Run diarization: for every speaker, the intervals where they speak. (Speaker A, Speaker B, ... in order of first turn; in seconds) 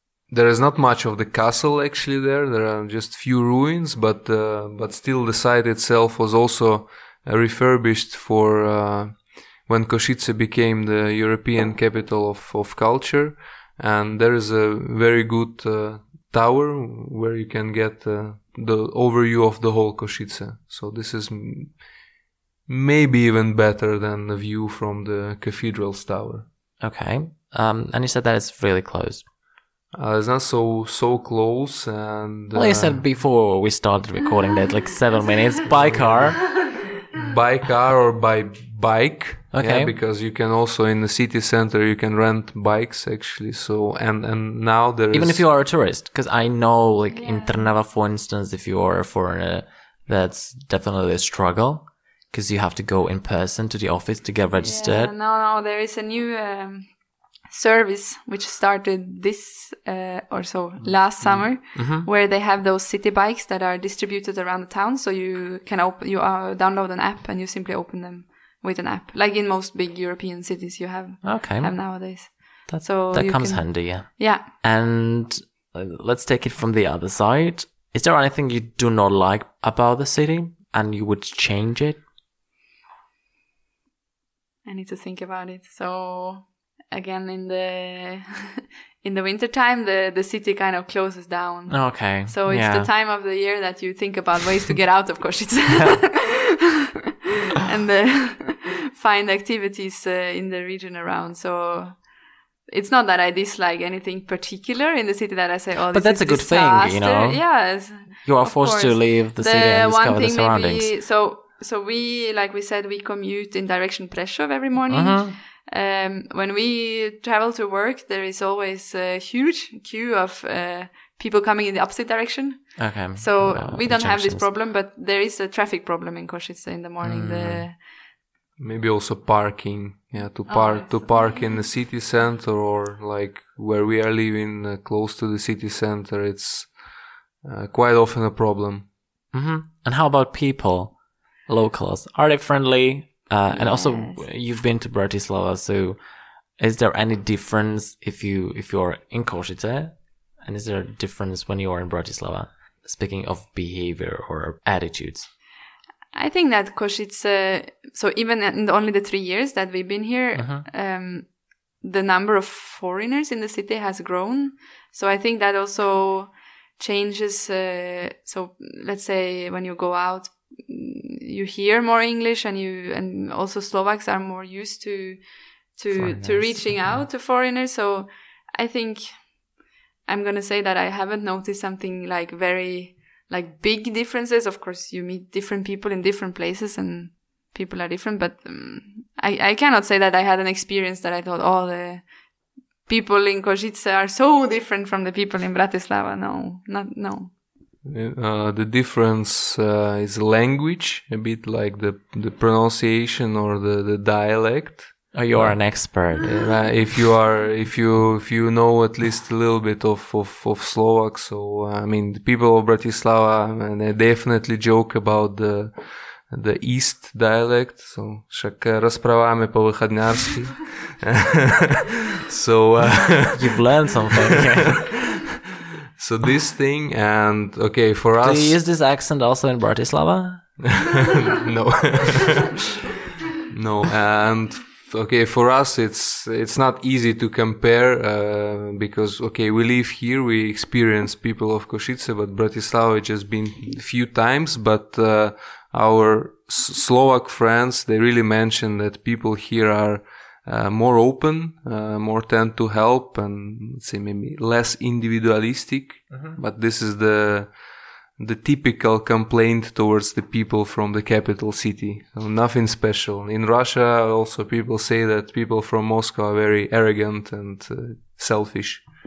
Speaker A: 0.2-21.9, 22.7-26.5, 29.9-33.1, 35.7-36.5, 37.2-45.5, 128.6-138.9, 197.8-221.8, 222.3-223.6, 226.0-228.6, 231.1-232.6, 233.5-268.9
Speaker B: 26.8-29.3, 32.5-36.8, 39.5-40.0, 45.1-55.1, 61.2-62.1, 71.2-82.0, 91.7-92.9, 105.9-110.9, 114.9-115.4, 122.8-124.5, 127.0-127.7, 139.3-146.0, 146.6-155.3, 160.3-160.7, 175.9-177.0, 205.1-206.4, 223.3-225.0, 228.2-230.8, 256.1-256.4
Speaker C: 47.1-47.7, 54.6-74.5, 84.7-96.4, 97.6-102.1, 102.7-127.8, 130.5-131.1, 143.5-144.2, 156.1-197.3